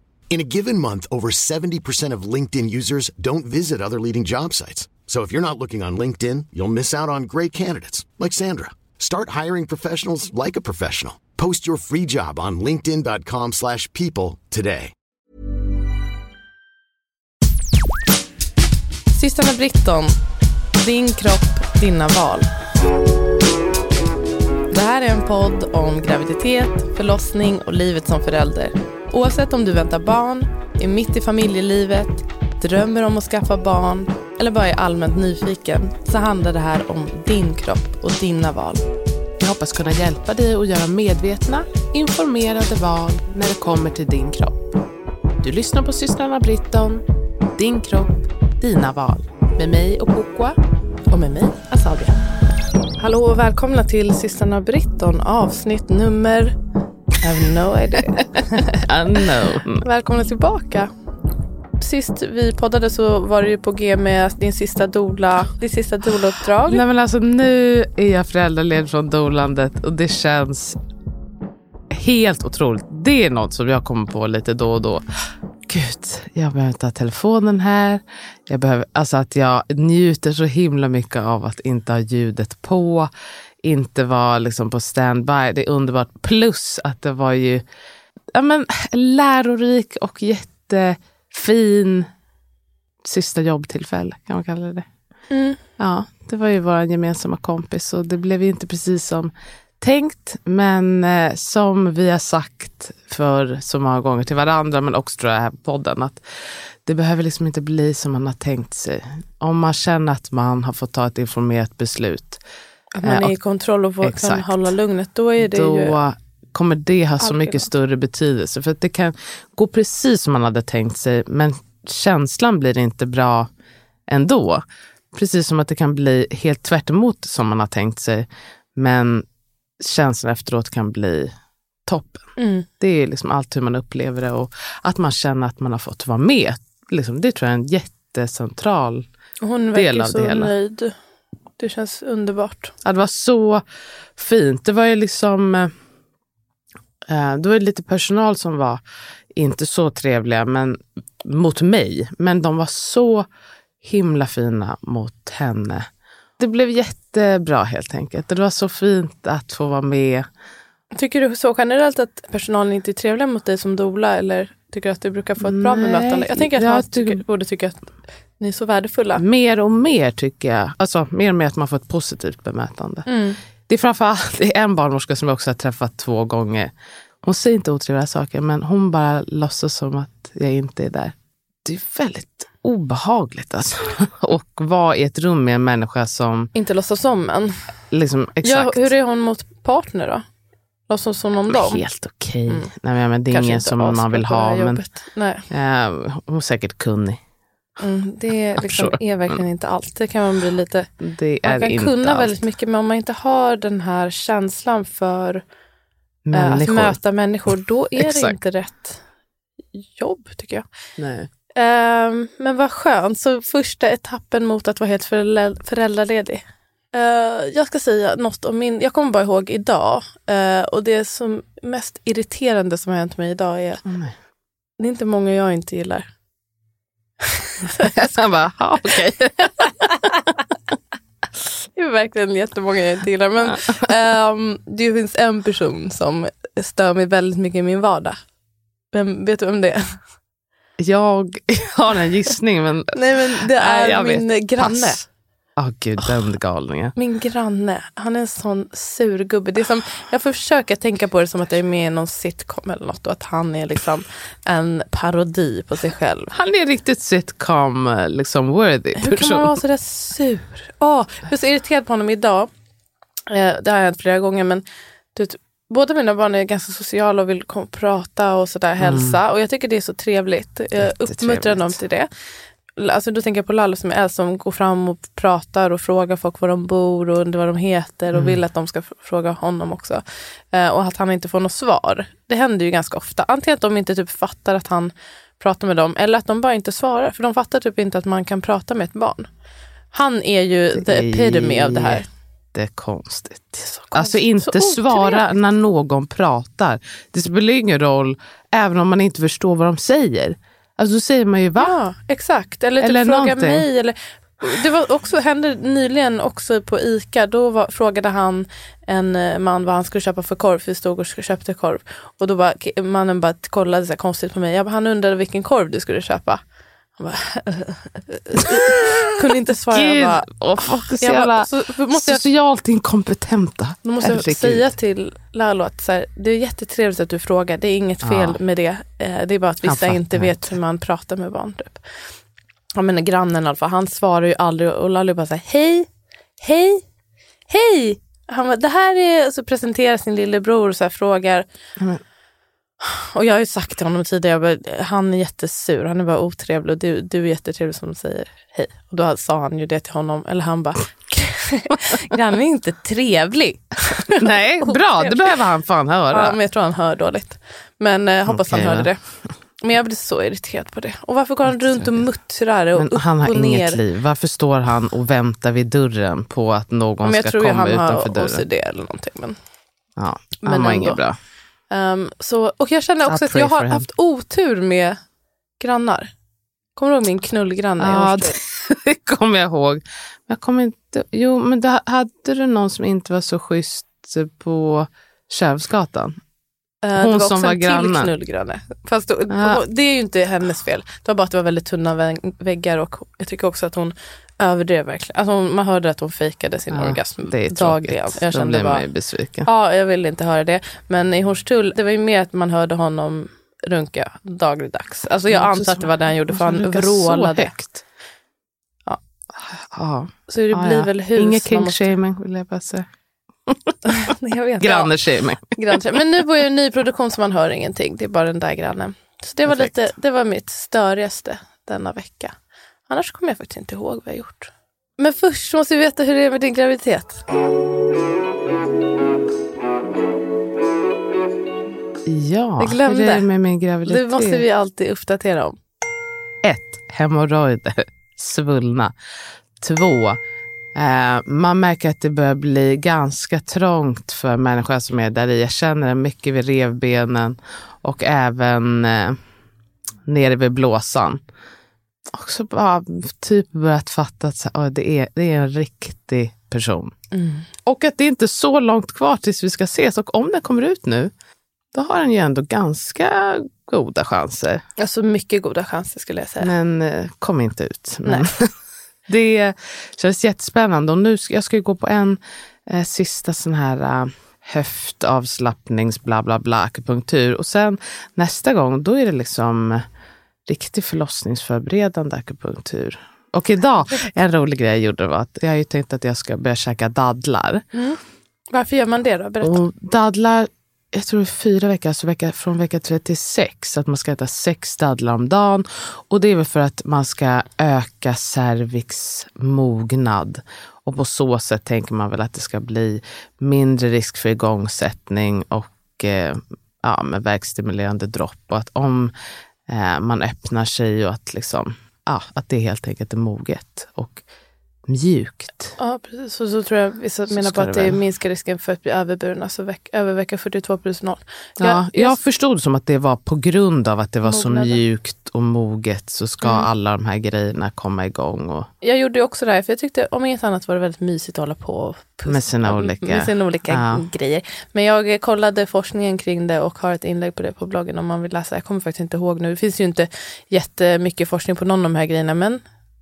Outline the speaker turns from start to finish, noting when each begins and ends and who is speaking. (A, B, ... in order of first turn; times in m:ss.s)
0:00.3-0:14.9 A
0:19.1-0:20.1 B
0:20.7-0:22.5 B
0:24.7-0:38.9 B
0:39.4-0:44.7 C
0:45.4-0:50.6 C
0:51.1-0:52.1 B
0:53.0-0:56.6 B
0:57.2-0:58.8 B
0:58.6-0:59.8 C
0:59.8-1:00.9 B
1:01.8-1:06.8 B
1:06.6-1:10.8 C
1:11.9-1:15.0 C
1:15.7-1:23.1 C
1:23.6-1:27.6 C
1:28.3-1:32.1 C
1:33.0-1:34.8 C
1:35.3-1:35.6 B
1:35.8-1:52.4 C
1:52.9-1:56.0 B
1:53.0-1:53.4 C
1:54.0-1:54.7 C
1:55.4-2:03.5 C
1:57.2-1:57.7 B
2:04.1-2:09.2 C
2:09.8-2:11.3 C
2:11.8-2:12.3 C
2:12.4-2:12.7 B
2:12.8-2:19.1 C
2:19.4-2:20.9 B
2:19.7-2:20.5 C
2:21.6-2:22.7 B
2:22.8-2:23.6 C
2:24.2-2:25.7 C
2:27.1-2:28.8 C
2:29.3-2:33.3 C
2:33.8-2:35.9 C
2:36.4-2:40.3 C
2:40.9-2:49.2 B
2:45.4-2:47.2 C
2:49.2-2:53.1 C
2:53.0-2:53.4 B
2:53.7-3:06.5 C
3:06.5-3:07.5 B
3:07.9-3:08.9 C
3:08.4-3:10.2 B
3:10.9-3:11.8 B
3:11.5-3:14.8 C
3:13.3-3:15.4 B
3:15.5-3:17.2 C
3:17.8-3:20.9 B
3:18.6-3:19.4 C
3:21.0-3:22.3 C
3:21.4-3:25.4 B
3:26.2-3:27.0 C
3:26.3-3:29.0 B
3:28.0-3:28.4 C
3:29.7-3:30.6 B
3:31.0-3:31.3 C
3:31.6-3:43.8 B
3:43.8-3:44.1 C
3:44.8-3:46.1 B
3:47.2-3:48.1 B
3:47.8-3:49.9 C
3:49.6-3:49.9 B
3:51.8-3:58.2 B
3:58.9-3:59.8 B
4:00.8-4:05.0 C
4:02.9-4:05.0 B
4:05.6-4:06.9 C
4:07.0-4:16.3 B
4:16.3-4:19.6 C
4:19.0-4:22.5 B
4:23.3-4:24.6 B
4:25.1-4:32.1 B
4:28.8-4:29.2 C
4:30.8-4:31.8 C
4:32.8-4:40.0 B
4:38.1-4:38.4 C
4:40.5-4:49.3 B
4:49.9-4:52.0 B
4:50.7-5:01.8 C
4:53.6-4:55.2 B
5:01.6-5:16.4 B
5:02.8-5:03.6 C
5:17.0-5:20.3 B
5:19.7-5:24.7 C
5:20.9-5:22.2 B
5:23.8-5:31.8 B
5:28.0-5:28.4 C
5:29.6-5:30.5 C
5:32.7-5:35.9 B
5:36.4-5:36.8 B
5:37.5-5:41.4 B
5:42.8-5:55.4 B
5:54.1-5:56.4 C
5:56.1-5:59.0 B
5:58.2-5:58.9 C
5:59.6-6:03.8 B
6:01.5-6:02.0 C
6:02.7-6:08.4 C
6:07.0-6:09.4 B
6:10.0-6:11.2 C
6:10.4-6:11.0 B
6:11.7-6:15.0 B
6:13.0-6:13.9 C
6:15.6-6:16.1 B
6:16.8-6:18.4 B
6:17.8-6:26.2 C
6:26.8-6:38.9 B
6:27.0-6:28.1 C
6:29.3-6:29.6 C
6:36.7-6:39.5 C
6:39.4-6:47.5 B
6:45.3-6:47.8 C
6:49.3-6:52.8 C
6:50.3-6:51.9 B
6:53.5-6:55.8 C
6:53.8-6:54.9 B
6:55.5-7:02.4 B
6:59.4-6:59.8 C
7:02.9-7:07.2 B
7:12.0-7:14.4 C
7:12.6-7:13.3 B
7:13.8-7:15.6 B
7:16.4-7:18.9 C
7:19.6-7:20.2 C
7:20.7-7:29.2 C
7:30.1-7:31.2 C
7:32.1-7:36.9 C
7:37.1-7:37.4 B
7:37.6-7:41.1 C
7:41.7-7:44.6 C
7:44.8-7:46.5 B
7:46.4-7:48.5 C
7:49.1-7:59.8 C
8:00.4-8:07.6 C
8:07.7-8:08.0 B
8:08.5-8:09.6 B
8:09.4-8:29.1 C
8:29.7-8:34.2 C
8:34.9-8:35.8 C
8:35.8-8:42.2 B
8:37.3-8:38.0 C
8:41.6-8:48.7 C
8:44.2-8:44.8 B
8:46.4-8:46.7 B
8:48.8-9:02.6 B
8:52.3-8:54.0 C